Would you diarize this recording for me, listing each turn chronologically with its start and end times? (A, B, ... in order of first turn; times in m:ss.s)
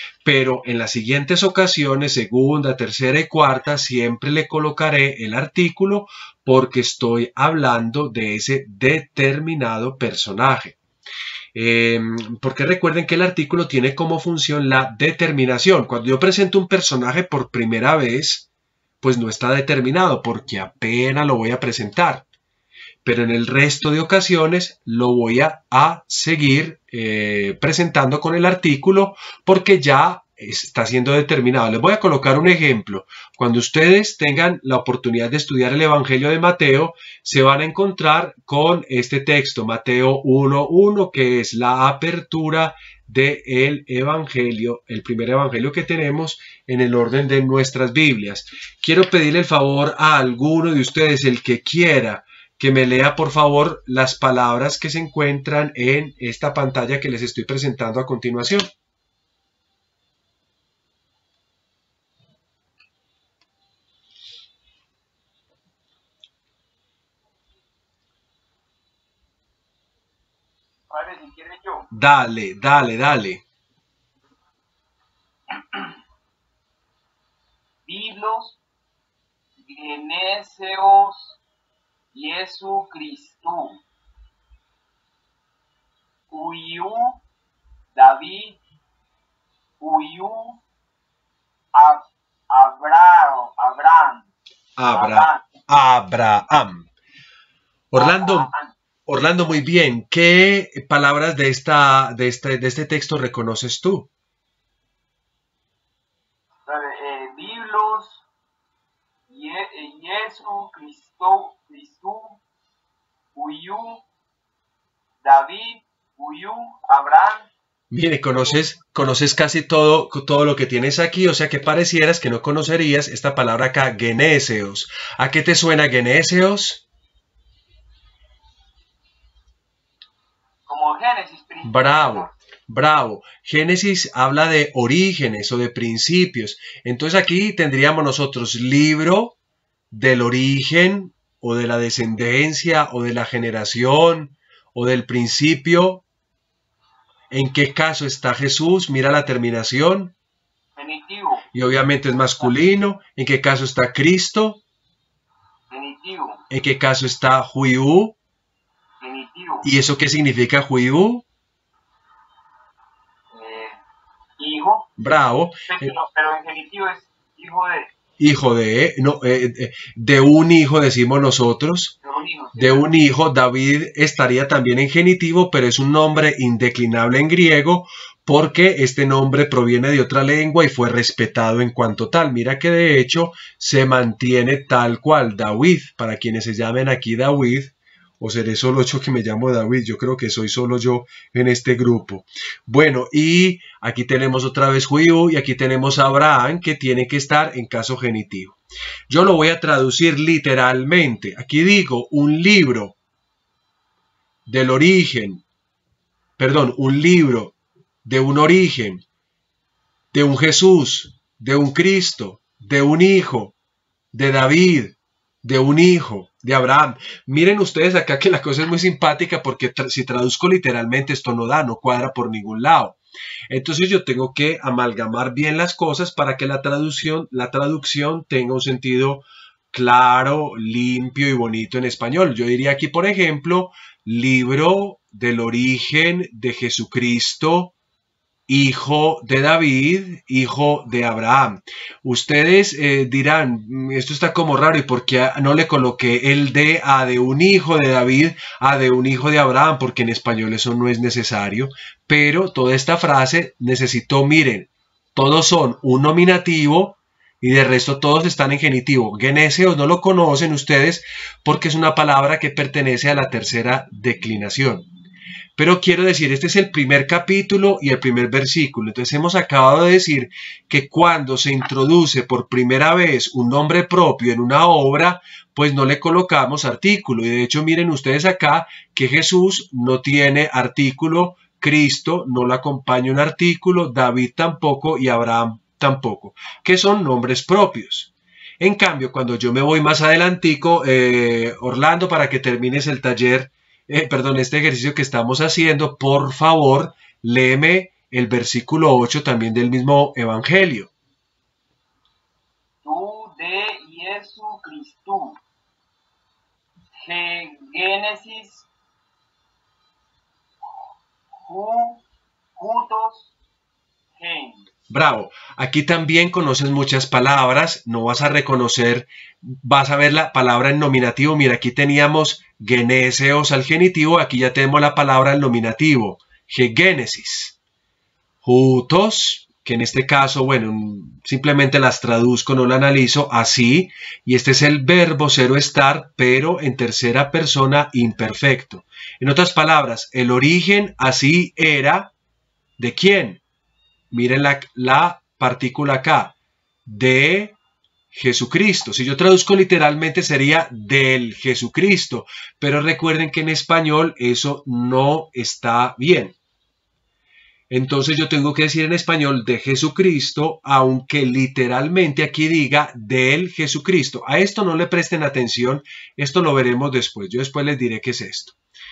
0:00.2-0:10.8 A
0:11.5-0:18.5 A
0:19.0-0:22.2 A
0:23.0-0:58.7 A
1:10.9-1:11.9 B
1:11.9-1:13.4 A
1:17.9-1:18.6 B
1:19.6-1:21.4 B
1:22.1-1:23.8 B
1:26.3-1:27.2 B
1:28.0-1:28.6 B
1:29.8-1:30.6 B
1:31.7-1:34.3 B
1:34.8-1:36.9 A
1:34.9-1:35.5 B
1:37.9-1:38.5 A
1:38.0-1:38.8 B
1:39.1-1:44.1 A
1:46.7-1:48.2 B
1:49.3-1:52.4 B
1:53.4-1:54.0 B
1:55.2-1:57.5 B
1:57.9-2:06.8 A
1:58.3-1:58.6 B
2:10.7-2:12.3 B
2:11.6-2:19.4 A
2:19.9-2:26.0 A
2:27.3-2:30.1 A
2:30.8-2:31.5 B
2:31.5-2:34.6 A
2:35.7-2:36.4 B
2:36.5-2:38.2 A
2:39.0-2:39.7 B
2:39.6-2:41.2 A
2:43.3-2:43.8 B
2:44.4-2:44.9 B
2:45.0-2:45.9 A
2:45.7-2:47.9 B
2:48.2-2:51.9 A
2:52.0-2:52.9 B
2:52.6-3:18.6 A
3:19.1-3:23.0 A
3:24.5-3:25.4 A
3:26.4-3:29.0 A
3:30.1-3:33.6 A
3:34.1-3:43.0 A
3:43.5-3:57.7 A
3:58.5-4:24.9 A
4:25.6-5:00.9 A
5:02.8-5:05.4 B
5:07.0-5:08.7 B
5:11.4-5:12.0 B
5:12.6-5:13.3 B
5:14.2-5:14.6 B
5:14.9-5:27.6 A
5:28.4-5:42.1 A
5:42.8-5:43.4 A
5:44.1-5:46.3 A
5:46.9-5:47.6 A
5:48.1-5:56.4 A
5:57.7-6:08.6 A